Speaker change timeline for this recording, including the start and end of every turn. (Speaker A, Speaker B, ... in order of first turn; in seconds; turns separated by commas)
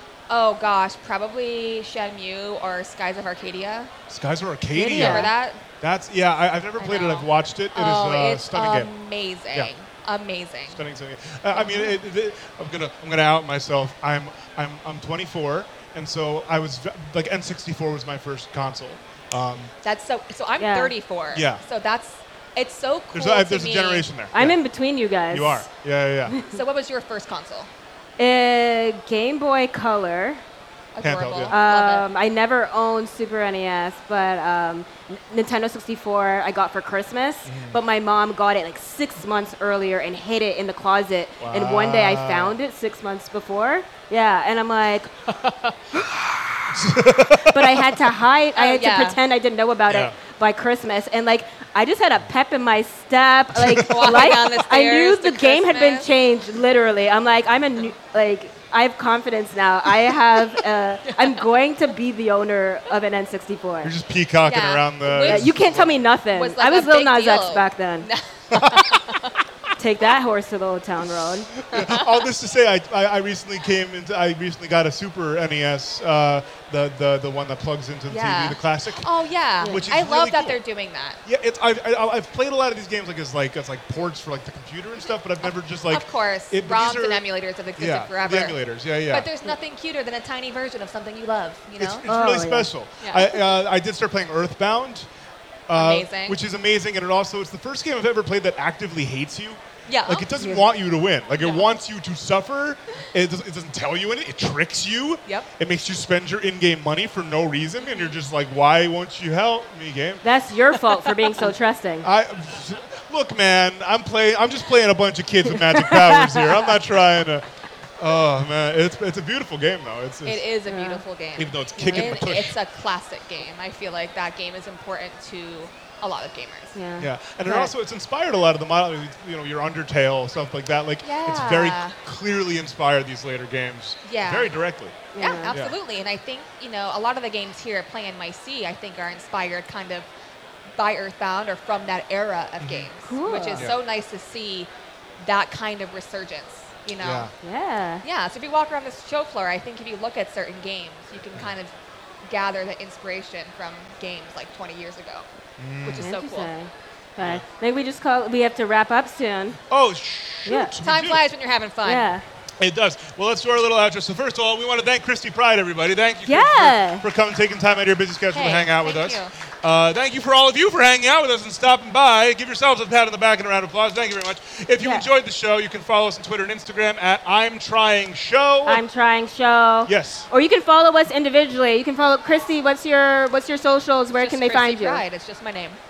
Speaker A: 0.3-3.9, Speaker B: 4.1-8.9, Speaker C: 4.7-5.3, Speaker A: 4.9-5.6, Speaker A: 6.8-10.8, Speaker B: 10.7-19.7, Speaker A: 11.5-12.0, Speaker A: 19.8-24.1, Speaker C: 20.6-20.9, Speaker B: 21.3-21.6, Speaker B: 23.1-24.6, Speaker C: 24.3-25.7, Speaker B: 25.3-26.4, Speaker C: 26.3-26.5, Speaker A: 26.5-27.7, Speaker C: 28.2-30.4, Speaker A: 30.9-32.1, Speaker B: 31.0-31.6, Speaker C: 31.5-45.1, Speaker B: 37.5-37.8, Speaker B: 41.4-42.6, Speaker B: 45.9-48.0, Speaker C: 47.5-63.9, Speaker A: 48.5-49.2, Speaker B: 49.9-50.1, Speaker B: 53.5-54.4, Speaker A: 53.9-56.1, Speaker A: 61.1-61.5, Speaker B: 63.8-66.0, Speaker A: 64.4-65.8, Speaker C: 65.2-68.1, Speaker A: 66.3-69.3, Speaker B: 68.5-69.0, Speaker C: 69.8-71.5, Speaker B: 71.7-79.1, Speaker A: 71.7-72.3, Speaker A: 78.1-81.2, Speaker C: 79.6-79.8, Speaker B: 79.6-80.6, Speaker B: 81.2-87.2, Speaker A: 85.4-92.1, Speaker B: 87.8-89.3, Speaker B: 91.8-95.1, Speaker C: 92.1-92.7, Speaker A: 93.0-93.4, Speaker B: 95.7-110.2, Speaker A: 95.7-96.4, Speaker A: 99.9-100.3, Speaker C: 100.4-100.7, Speaker A: 101.4-101.7, Speaker C: 110.2-112.1, Speaker A: 110.9-111.3, Speaker B: 112.0-117.5, Speaker C: 115.7-116.4, Speaker B: 118.0-120.5, Speaker A: 120.2-126.8, Speaker C: 120.7-121.0, Speaker B: 121.4-122.6, Speaker C: 121.9-122.2, Speaker C: 126.8-127.7, Speaker B: 127.0-135.8, Speaker A: 131.0-132.0, Speaker A: 134.1-134.5, Speaker C: 135.1-135.6, Speaker A: 135.2-140.1, Speaker A: 140.8-144.7, Speaker B: 142.6-142.9, Speaker C: 143.0-143.7, Speaker A: 145.2-147.3, Speaker B: 147.0-147.3, Speaker C: 147.4-148.0, Speaker A: 148.0-151.7, Speaker A: 152.3-155.3, Speaker B: 155.6-156.1, Speaker A: 155.8-156.5, Speaker C: 156.0-159.6, Speaker B: 159.7-161.2, Speaker C: 160.4-160.7, Speaker A: 160.8-162.1, Speaker C: 161.8-162.2, Speaker B: 162.6-178.8, Speaker C: 166.2-167.1, Speaker A: 168.3-169.3, Speaker C: 174.8-175.1, Speaker C: 178.7-185.0, Speaker B: 179.9-180.3, Speaker A: 184.2-185.8